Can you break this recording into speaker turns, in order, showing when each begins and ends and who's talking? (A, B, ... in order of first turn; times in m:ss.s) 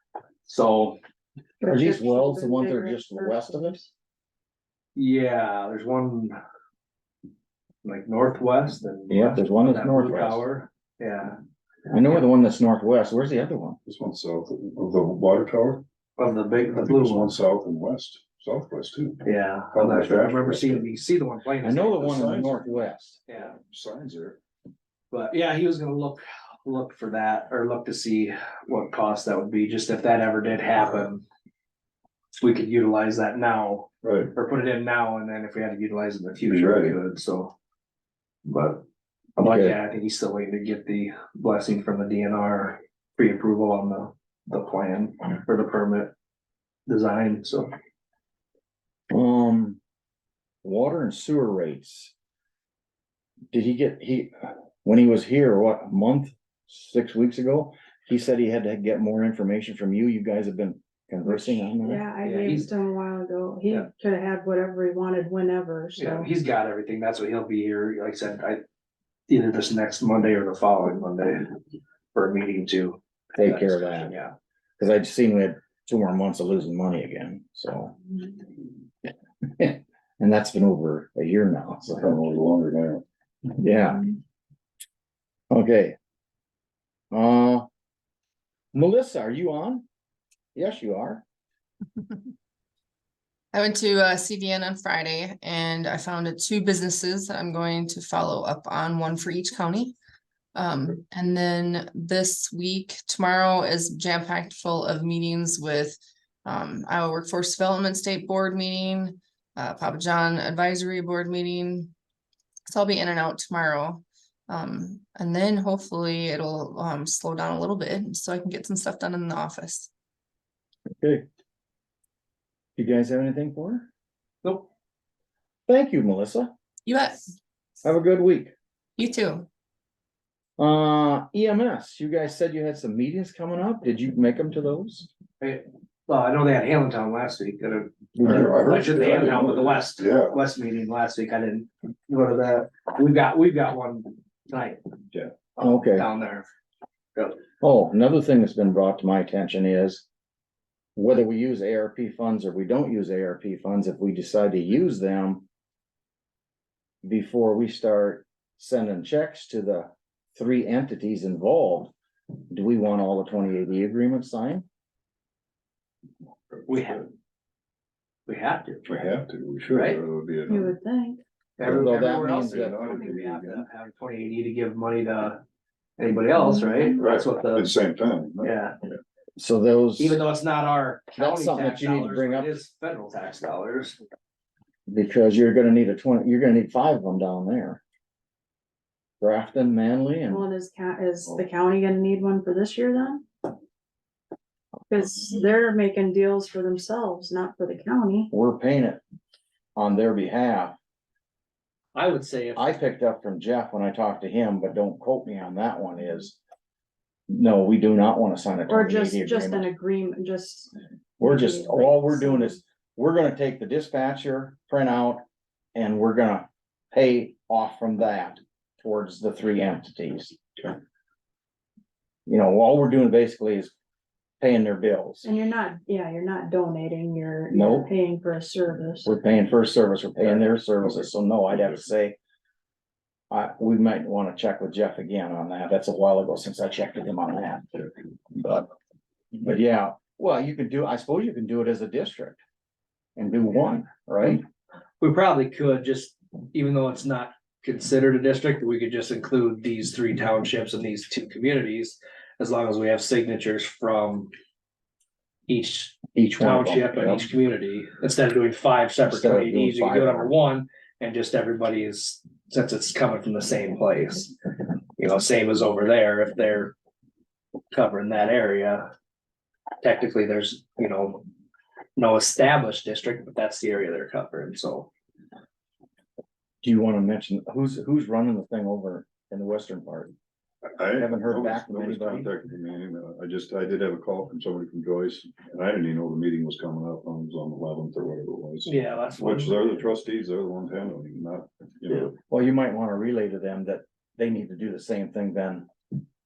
0:00.4-0:01.0 A
0:01.6-0:03.9 B
0:01.6-0:03.8 C
0:05.0-0:06.4 A
0:07.8-0:11.4 A
0:09.1-0:10.4 C
0:11.9-0:13.8 C
0:13.8-0:15.8 D
0:16.2-0:17.4 A
0:16.7-0:20.8 D
0:19.2-0:22.2 A
0:21.6-0:23.2 C
0:22.0-0:22.8 D
0:23.3-0:23.6 A
0:23.5-0:24.4 D
0:25.1-0:31.2 A
0:32.4-0:37.5 A
0:34.0-0:34.3 D
0:36.4-0:37.0 D
0:38.4-0:38.8 A
0:39.4-0:46.1 A
0:39.4-0:39.8 C
0:46.9-0:47.7 A
0:49.1-0:49.8 C
0:50.6-0:52.1 C
0:53.5-1:02.0 C
1:01.2-1:06.3 B
1:02.2-1:02.7 A
1:06.0-1:08.6 A
1:09.3-1:11.5 A
1:12.1-1:14.3 A
1:13.4-1:14.2 C
1:14.8-1:18.0 C
1:19.6-1:22.2 C
1:22.0-1:23.0 D
1:23.5-1:24.1 C
1:25.5-1:26.0 C
1:27.1-1:27.7 C
1:28.7-1:29.9 C
1:30.6-1:31.2 C
1:33.5-1:40.0 E
1:40.6-1:51.9 E
1:52.7-1:59.9 E
2:01.0-2:01.3 C
2:02.8-2:03.9 C
2:05.7-2:06.5 C
2:06.9-2:07.3 E
2:07.8-2:08.5 C
2:09.0-2:09.5 E
2:10.6-2:15.1 C
2:15.4-2:24.8 A
2:18.2-2:18.5 C
2:18.2-2:20.4 D
2:25.6-2:26.1 C
2:25.9-2:26.5 A
2:27.6-2:30.0 C
2:31.0-2:35.5 C
2:37.0-2:41.9 C
2:42.5-2:44.7 C
2:46.5-2:47.0 D
2:46.7-2:47.1 A
2:48.3-2:48.8 A
2:48.9-2:50.7 D
2:49.7-2:50.0 A
2:50.5-2:51.2 B
2:51.6-2:55.4 A
2:51.6-2:52.8 C
2:52.3-2:53.7 D
2:56.0-2:57.7 A
2:56.3-2:57.0 B
2:57.0-2:58.5 D
2:58.4-2:58.8 A
2:59.4-3:00.2 C
3:00.0-3:04.0 A
3:01.2-3:02.6 C
3:04.9-3:07.8 C
3:09.2-3:10.5 C
3:10.3-3:13.2 B
3:14.9-3:18.3 B
3:18.3-3:19.0 C
3:19.8-3:20.8 C
3:21.9-3:22.8 A
3:22.6-3:26.4 C
3:27.3-3:29.7 C
3:28.7-3:32.6 B
3:31.2-3:35.2 C
3:35.8-3:40.4 C
3:42.2-3:43.7 C
3:44.4-3:45.2 C
3:45.2-3:49.1 B
3:47.5-3:47.9 C
3:49.0-3:52.2 C
3:50.2-3:51.8 D
3:53.3-3:57.8 C
3:58.3-3:58.7 C
3:59.3-4:02.4 C
4:03.2-4:04.4 C
4:05.0-4:14.3 A
4:15.5-4:24.3 A
4:16.1-4:17.2 C
4:19.1-4:20.3 C
4:25.0-4:26.8 A
4:27.7-4:28.9 A
4:29.8-4:31.2 A
4:32.0-4:34.9 A
4:36.6-4:40.1 C
4:40.8-4:52.1 D
4:41.0-4:42.3 C
4:48.6-4:49.8 A
4:52.3-4:55.7 C